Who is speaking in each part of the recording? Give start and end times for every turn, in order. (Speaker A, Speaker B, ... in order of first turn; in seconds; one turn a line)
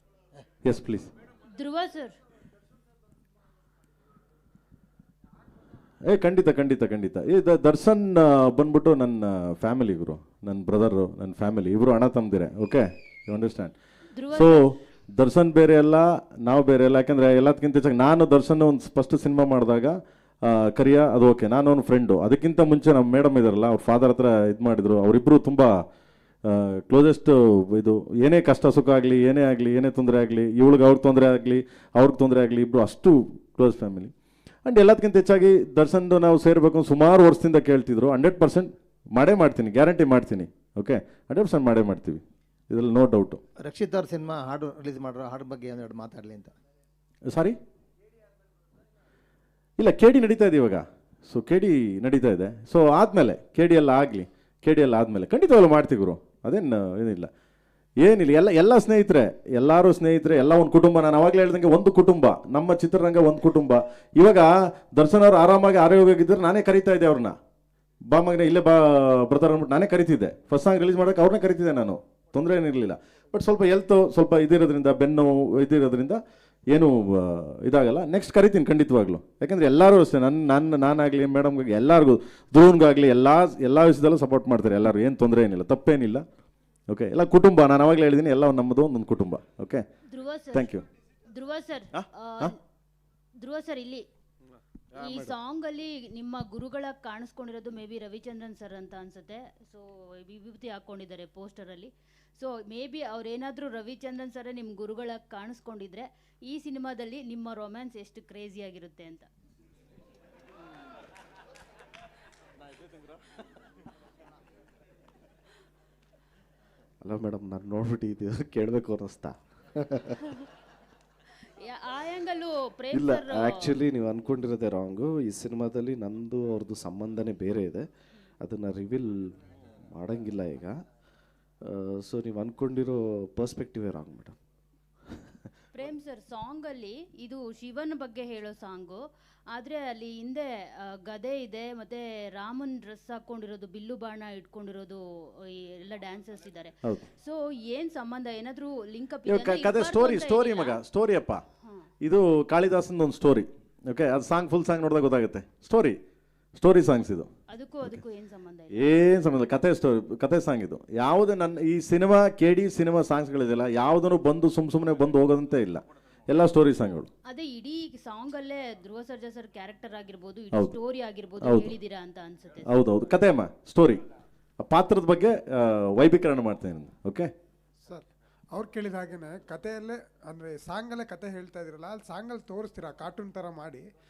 Speaker A: 0.6-1.1
Speaker B: 1.5-2.1
Speaker A: 6.0-13.7
Speaker B: 14.1-14.7
Speaker A: 14.3-25.8
Speaker A: 26.4-34.1
Speaker A: 34.6-43.4
Speaker C: 43.6-46.5
Speaker A: 47.3-47.6
Speaker A: 49.8-57.3
Speaker A: 58.0-67.4
Speaker A: 68.1-86.2
Speaker A: 86.9-89.8
Speaker B: 90.1-90.7
Speaker A: 90.5-90.8
Speaker B: 91.3-92.5
Speaker A: 91.9-92.5
Speaker B: 93.4-94.1
Speaker B: 94.9-109.3
Speaker D: 95.0-95.3
Speaker D: 117.0-120.2
Speaker B: 121.5-123.8
Speaker D: 122.9-127.8
Speaker D: 128.4-129.3
Speaker D: 129.9-130.8
Speaker D: 131.6-134.4
Speaker B: 135.7-150.8
Speaker A: 149.2-151.4
Speaker A: 152.0-156.0
Speaker A: 156.5-157.3
Speaker B: 157.5-159.2
Speaker A: 158.7-167.1
Speaker B: 167.2-172.7
Speaker A: 171.4-171.7
Speaker A: 172.6-174.0
Speaker A: 174.6-177.3
Speaker E: 177.8-183.8